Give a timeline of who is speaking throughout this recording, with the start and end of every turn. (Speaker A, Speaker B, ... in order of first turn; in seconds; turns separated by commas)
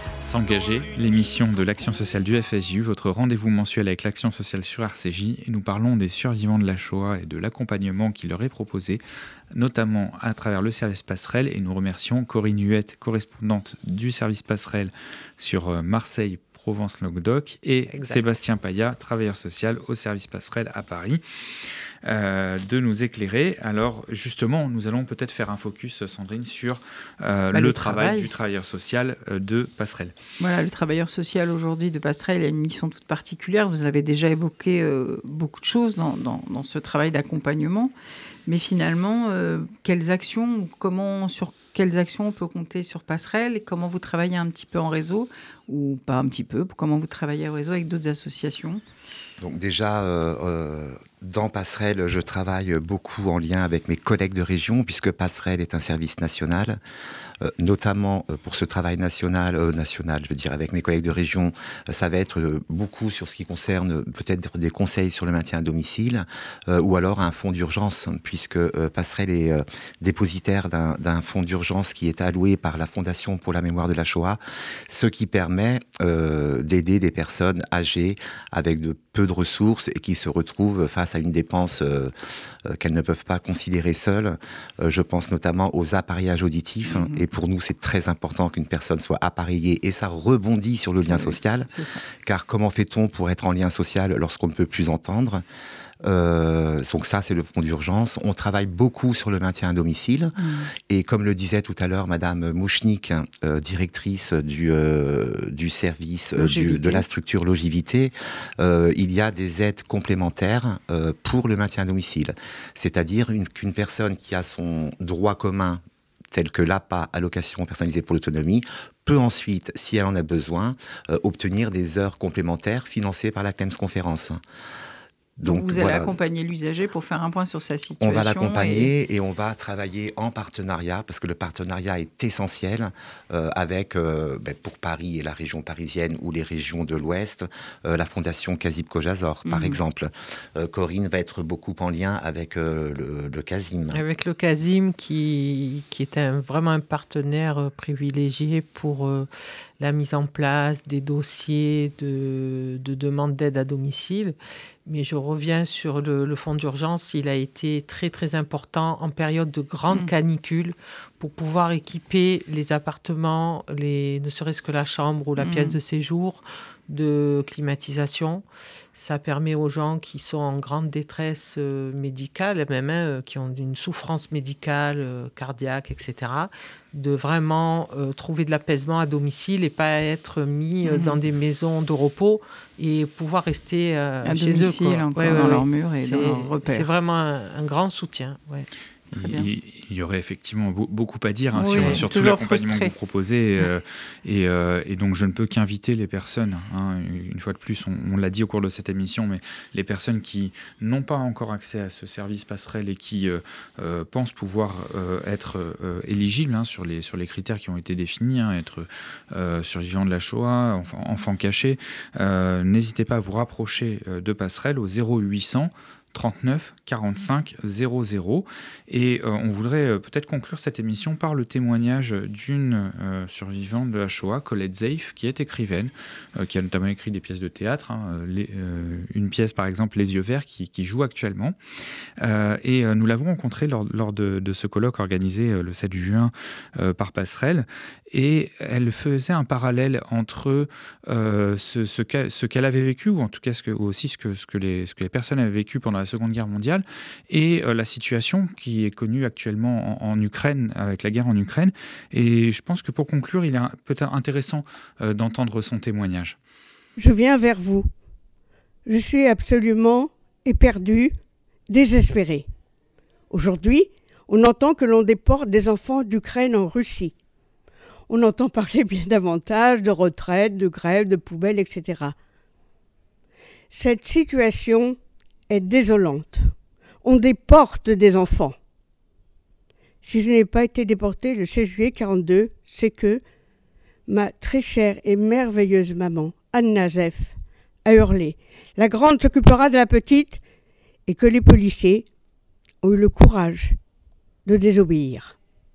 Speaker A: 0.2-9.0, Speaker A: 9.5-21.2, Speaker B: 17.9-18.2, Speaker A: 22.0-30.1, Speaker C: 27.5-28.3, Speaker C: 30.4-37.9, Speaker C: 38.5-48.8, Speaker D: 49.4-56.8, Speaker D: 57.4-82.1, Speaker D: 82.6-95.4, Speaker C: 86.8-87.2, Speaker C: 91.0-92.0, Speaker D: 96.0-124.4, Speaker C: 100.4-100.7, Speaker C: 106.4-107.0, Speaker D: 125.4-126.1, Speaker C: 125.4-128.9, Speaker D: 128.0-144.0, Speaker C: 139.4-139.8, Speaker B: 143.9-188.7, Speaker C: 165.4-165.8, Speaker C: 180.8-181.2, Speaker C: 184.2-186.9, Speaker A: 189.1-231.6, Speaker C: 189.1-189.5, Speaker C: 191.5-192.9, Speaker B: 191.6-192.0, Speaker A: 232.2-256.4, Speaker E: 257.0-257.9, Speaker E: 258.9-261.1, Speaker E: 261.7-262.5, Speaker E: 263.3-267.1, Speaker E: 268.1-272.1, Speaker E: 273.7-275.0, Speaker E: 275.5-276.5, Speaker E: 277.0-278.6, Speaker E: 280.0-283.2, Speaker E: 284.1-290.4, Speaker E: 291.1-292.1, Speaker E: 292.8-293.8, Speaker E: 294.4-295.4